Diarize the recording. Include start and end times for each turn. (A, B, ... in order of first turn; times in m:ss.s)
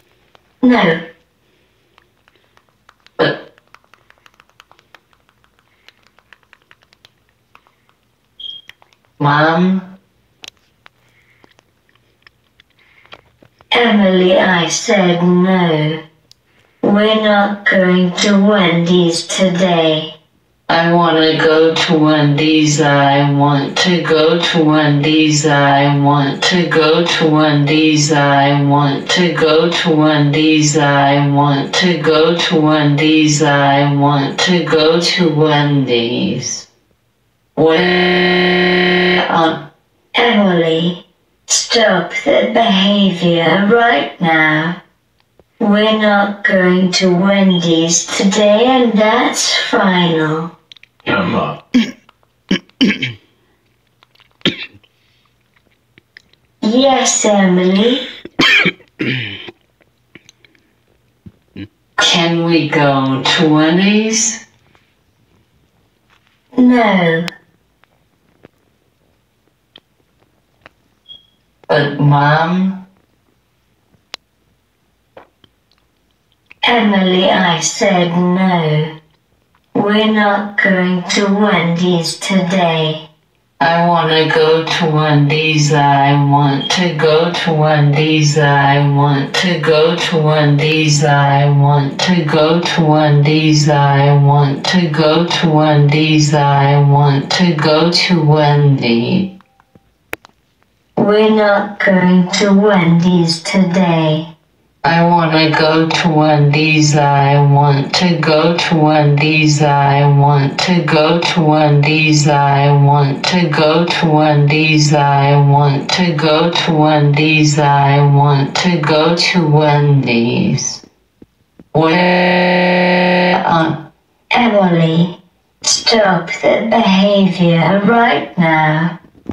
0:00.6-0:01.0 A
0:09.2-0:09.9 B
0:13.7-0:16.0 A
0:16.8-0:20.1 A
0:20.7-0:36.7 B
0:37.6-0:39.7 B
0:40.1-0:44.8 A
0:45.6-0:50.5 A
0:56.6-0:58.0 A
1:02.0-1:04.4 B
1:06.5-1:07.3 A
1:11.7-1:12.8 B
1:16.6-1:18.9 A
1:19.7-1:23.1 A
1:23.6-1:39.3 B
1:41.0-1:44.3 A
1:44.8-2:00.8 B
2:01.7-2:03.8 B
2:04.3-2:08.9 A